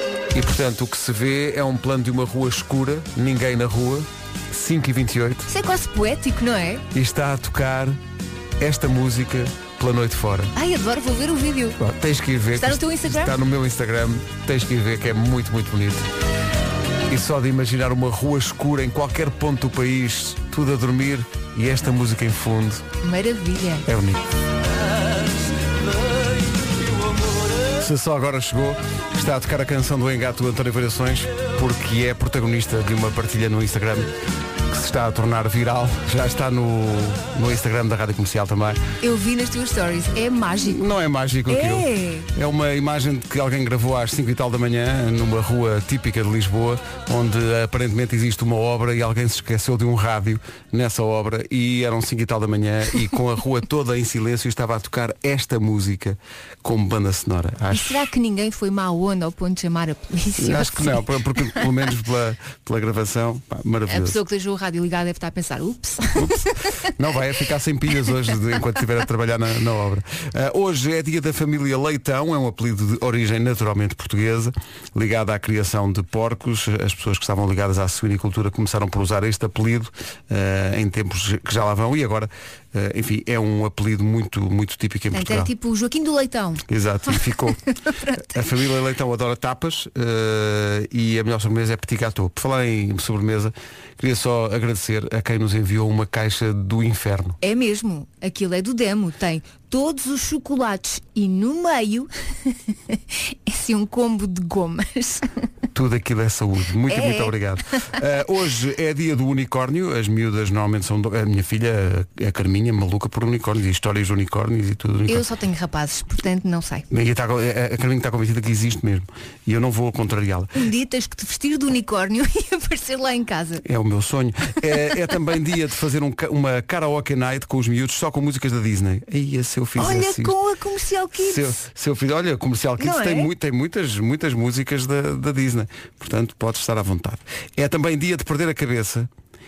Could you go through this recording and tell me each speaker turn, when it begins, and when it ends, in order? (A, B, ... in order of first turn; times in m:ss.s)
0:00.3-0:05.5 A
0:05.5-0:06.8 B
0:06.9-0:08.0 A
0:08.6-0:10.5 A
0:10.6-0:11.8 B
0:11.8-0:16.1 A
0:12.6-0:13.3 B
0:17.1-0:22.8 A
0:23.0-0:23.8 B
0:23.8-0:24.2 A
0:27.8-0:34.1 A
0:34.7-0:38.8 A
0:39.0-0:40.8 B
0:40.6-0:58.1 A
0:41.5-0:42.3 B
0:57.7-1:01.1 B
1:00.4-1:04.2 A
1:03.9-1:06.4 B
1:06.9-1:25.5 A
1:25.1-1:27.2 B
1:26.7-1:27.6 A
1:27.9-1:28.4 B
1:28.3-1:37.4 A
1:37.4-1:45.3 B
1:45.7-1:55.2 A
1:46.9-1:47.3 B
1:55.1-1:56.8 B
1:56.9-2:00.5 A
2:00.5-2:03.6 B
2:03.6-2:10.4 A
2:09.8-2:11.6 B
2:11.2-2:19.1 A
2:12.8-2:13.3 B